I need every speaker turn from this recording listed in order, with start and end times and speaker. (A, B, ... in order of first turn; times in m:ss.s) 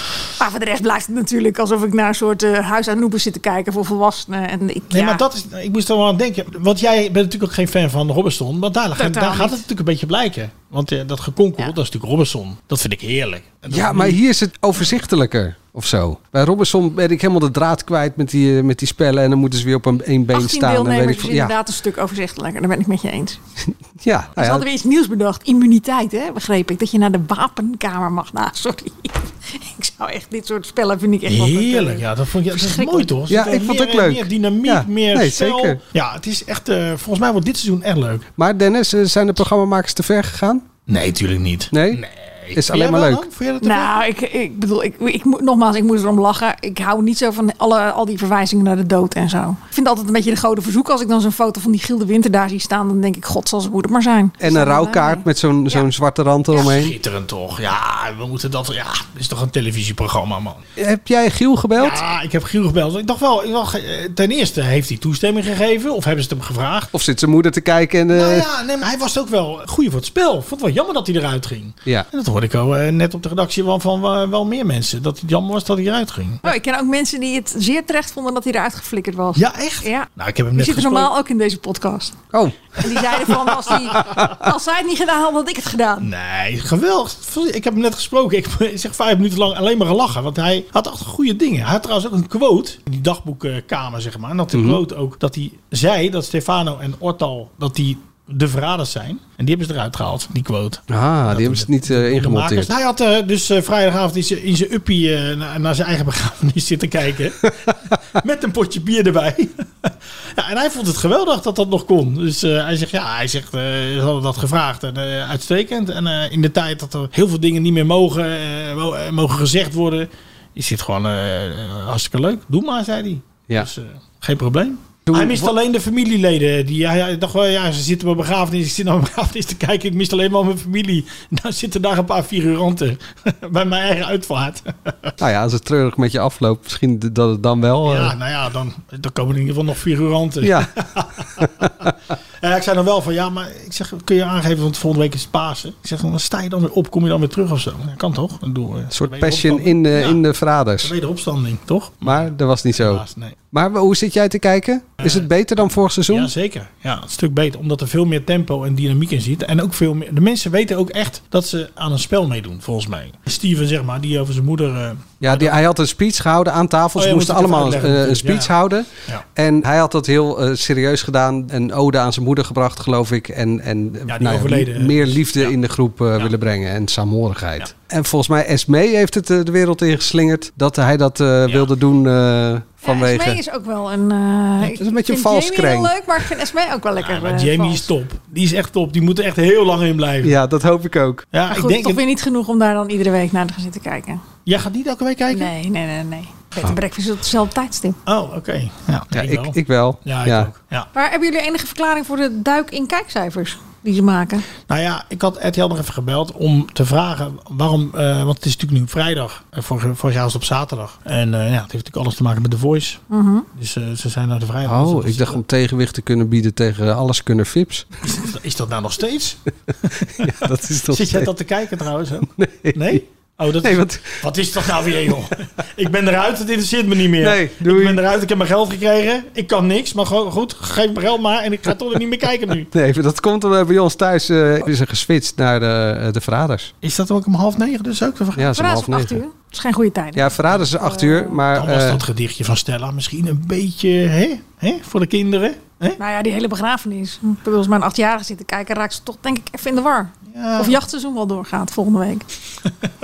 0:00.4-0:05.2 A
0:04.9-0:14.2 B
0:09.0-0:09.6 A
0:13.7-0:21.5 C
0:20.3-0:23.4 A
0:24.0-0:24.6 C
0:24.4-0:33.1 A
0:31.3-0:38.3 B
0:33.3-0:35.8 C
0:38.4-0:40.6 C
0:40.9-0:44.0 B
0:41.7-0:42.0 C
0:42.5-0:43.2 C
0:43.6-0:55.8 A
0:54.4-0:56.9 C
0:56.5-1:00.6 B
1:00.8-1:02.0 C
1:01.8-1:06.9 B
1:06.9-1:08.5 C
1:08.1-1:16.4 B
1:16.4-1:22.2 A
1:19.4-1:21.1 B
1:22.8-1:26.1 A
1:26.0-2:15.1 B
1:34.5-1:34.8 C
1:40.9-1:42.7 C
2:05.1-2:05.5 C
2:15.2-2:18.1 C
2:17.8-2:21.9 B
2:20.4-2:20.7 C
2:22.4-2:30.2 B
2:28.9-2:30.9 C
2:30.8-2:33.4 B
2:32.0-2:36.3 C
2:35.0-2:35.2 B
2:36.1-2:45.6 B
2:45.2-3:03.4 C
2:47.0-2:48.5 B
2:54.1-2:55.5 B
3:02.8-3:07.9 A
3:04.6-3:05.9 C
3:07.0-3:10.4 B
3:10.2-3:11.2 C
3:11.3-3:12.0 B
3:11.5-3:14.2 A
3:14.4-3:15.5 B
3:15.3-3:18.0 A
3:18.0-3:20.9 B
3:19.1-3:20.5 C
3:20.9-3:24.4 A
3:24.7-3:33.0 B
3:33.1-3:33.4 A
3:33.6-3:35.4 B
3:34.6-3:37.9 C
3:38.0-3:52.7 B
3:40.2-3:41.3 C
3:42.2-3:43.0 C
3:43.6-3:44.3 C
3:44.8-3:45.1 C
3:47.2-3:48.0 C
3:52.7-3:56.7 C
3:56.8-3:58.6 B
3:58.4-3:59.2 C
3:58.6-4:01.4 A
4:00.2-4:02.0 C
4:01.5-4:06.0 B
4:06.0-4:12.3 A
4:10.3-4:10.8 B